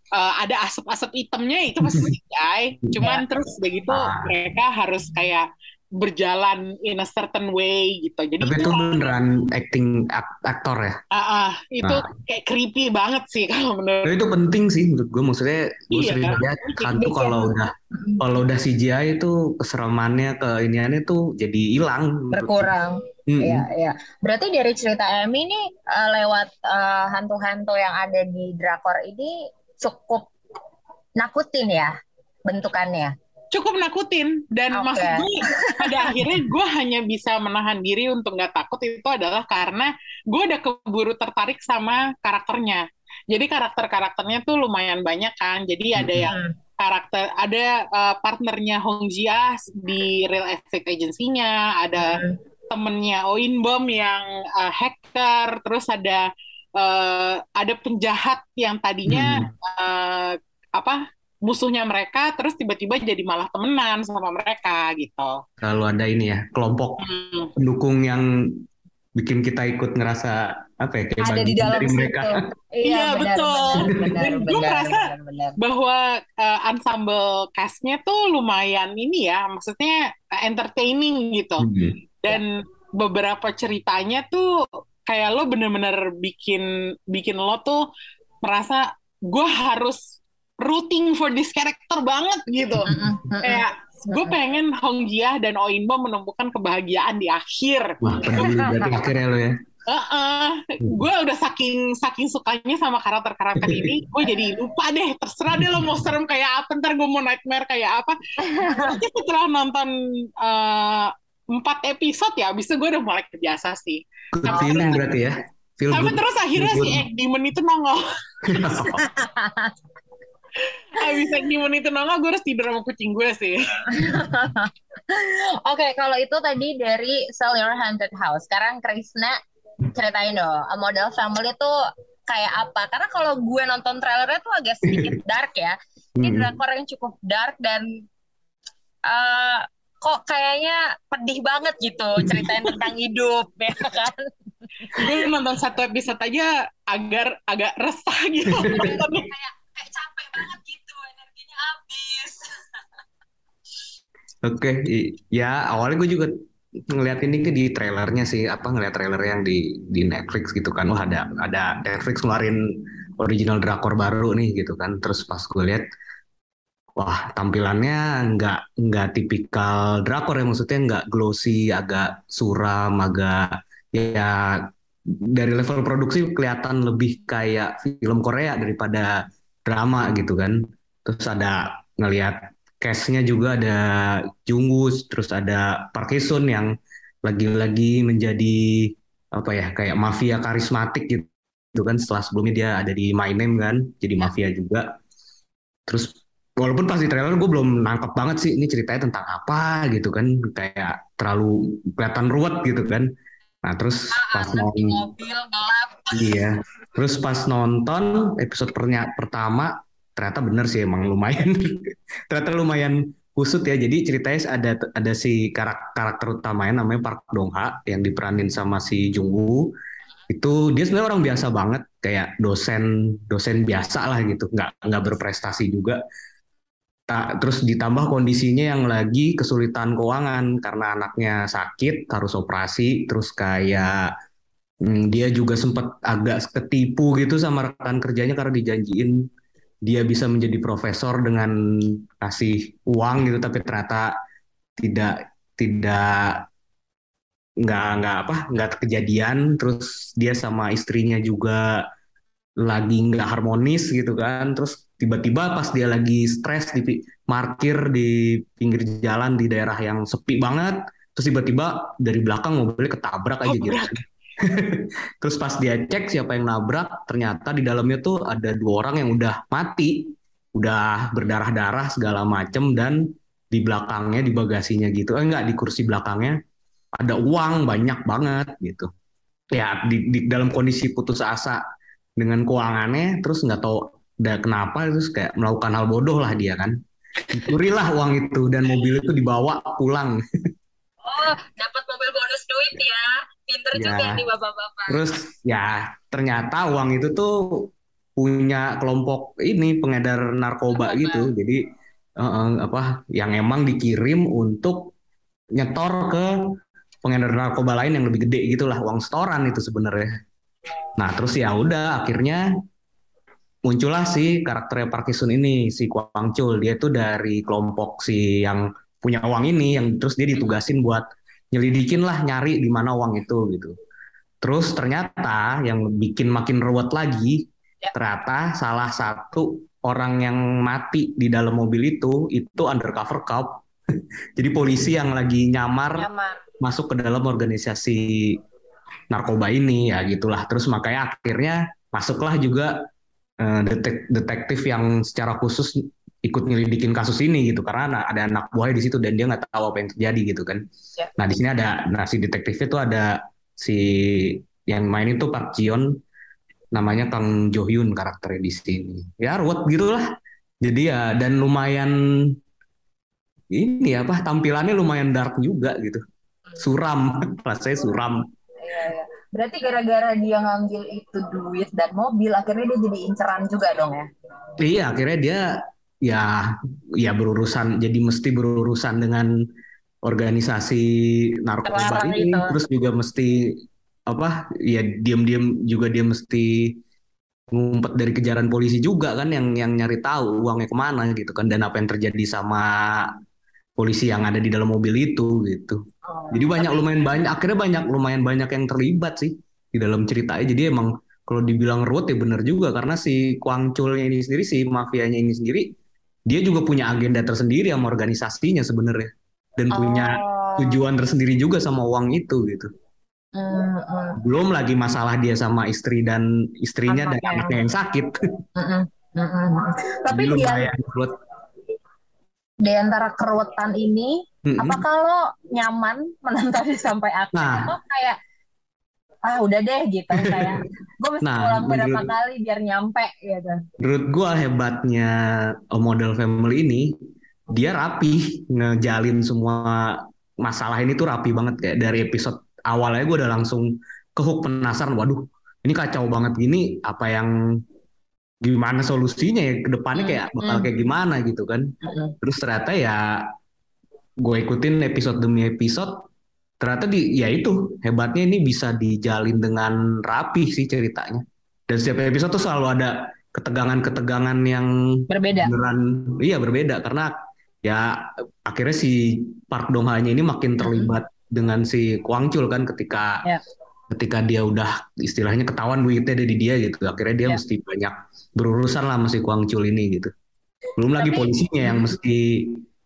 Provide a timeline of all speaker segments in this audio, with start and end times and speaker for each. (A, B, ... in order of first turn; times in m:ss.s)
0:00.1-0:09.0 A
0:01.8-0:02.1 B
0:03.9-0:04.3 B
0:08.4-0:11.0 B
0:11.1-0:14.2 A
0:11.8-0:12.1 B
0:14.0-0:22.7 B
0:15.9-0:16.9 A
0:17.0-0:18.2 C
0:22.3-0:30.3 C
0:23.3-0:23.7 B
0:31.2-0:31.9 C
0:32.5-0:33.1 C
0:33.5-0:56.3 A
0:34.8-0:36.2 C
0:46.0-0:46.2 B
0:46.3-0:46.5 C
0:52.0-0:52.4 C
0:56.8-1:05.4 A
0:59.1-0:59.5 B
1:05.6-1:07.0 B
1:07.0-1:07.5 A
1:07.6-1:08.3 B
1:09.2-1:12.3 B
1:11.2-1:15.6 C
1:12.8-1:21.7 A
1:21.6-1:22.0 B
1:22.2-1:27.8 A
1:28.4-1:38.7 A
1:32.8-1:34.4 C
1:38.0-1:39.6 B
1:38.4-1:39.0 C
1:39.9-1:55.0 A
1:45.6-1:45.9 B
1:48.4-1:49.0 C
1:54.4-1:57.0 B
1:54.5-1:55.0 C
1:55.9-1:58.0 A
1:58.5-1:59.1 B
1:58.9-1:59.7 C
2:01.0-2:03.7 A
2:01.0-2:01.3 C
2:03.9-2:09.4 C
2:09.9-2:11.8 C
2:12.3-2:18.1 C
2:16.2-2:16.5 B
2:19.1-2:24.3 C
2:22.2-2:22.8 B
2:24.8-2:25.2 C
2:25.0-2:29.3 A
2:28.6-2:28.8 B
2:28.6-2:32.4 C
2:34.4-2:36.3 B
2:36.9-2:42.6 B
2:43.2-2:45.8 B
2:47.0-2:54.7 B
2:55.3-3:06.7 B
3:07.3-3:14.8 B
3:15.9-3:23.1 B
3:23.6-3:25.1 B
3:24.1-3:26.4 C
3:26.1-3:39.7 B
3:40.3-3:46.0 B
3:47.1-3:54.1 B
3:54.8-3:59.2 B
3:59.9-4:04.1 B
4:04.8-4:06.4 B
4:07.6-4:11.6 B
4:12.6-4:36.4 B
4:23.5-4:24.0 A
4:37.0-4:38.9 B
4:39.5-4:41.6 B
4:42.2-4:46.8 B
4:47.3-4:50.2 B
4:51.0-4:55.0 C
4:53.7-4:54.2 B
4:54.9-5:01.6 B
5:00.7-5:01.3 C
5:02.2-5:04.9 B
5:05.6-5:06.3 B
5:07.0-5:10.1 B
5:11.0-5:12.4 B
5:13.7-5:23.8 B
5:24.4-5:33.6 B
5:34.4-5:36.1 B
5:36.0-5:36.4 C
5:36.6-5:38.4 B
5:39.1-5:42.7 B
5:43.4-5:50.6 B
5:51.2-5:55.9 B
5:56.7-6:00.1 B
6:00.6-6:02.3 B
6:03.5-6:06.0 B
6:06.6-6:08.2 B
6:08.6-6:14.1 C
6:14.6-6:15.4 B
6:16.0-6:19.3 B
6:20.0-6:20.9 B
6:21.4-6:23.4 B
6:21.6-6:22.6 C
6:24.1-6:26.7 B
6:27.5-6:33.1 B
6:33.8-6:35.8 B
6:36.1-6:37.0 C
6:36.3-6:45.7 B
6:46.3-6:52.7 B
6:49.7-6:50.8 C
6:53.4-6:54.2 C
6:54.2-6:58.1 B
6:56.9-6:57.6 C
6:58.6-7:00.7 C
7:00.1-7:01.1 B
7:02.6-7:08.2 C
7:04.4-7:04.8 B
7:07.3-7:07.8 B
7:09.3-7:13.6 C
7:10.1-7:10.5 B
7:11.2-7:12.1 B
7:13.8-7:15.1 B
7:15.7-7:16.9 B
7:17.5-7:27.3 B
7:28.4-7:31.7 B
7:30.0-7:30.7 C
7:31.8-7:32.1 C
7:32.2-7:33.3 B
7:34.2-7:35.9 B
7:36.6-7:44.7 B
7:45.1-7:45.5 C
7:45.4-7:47.1 B
7:47.6-7:53.2 B
7:50.6-7:51.0 C
7:53.9-8:00.1 B
8:00.8-8:02.6 B
8:01.0-8:01.9 C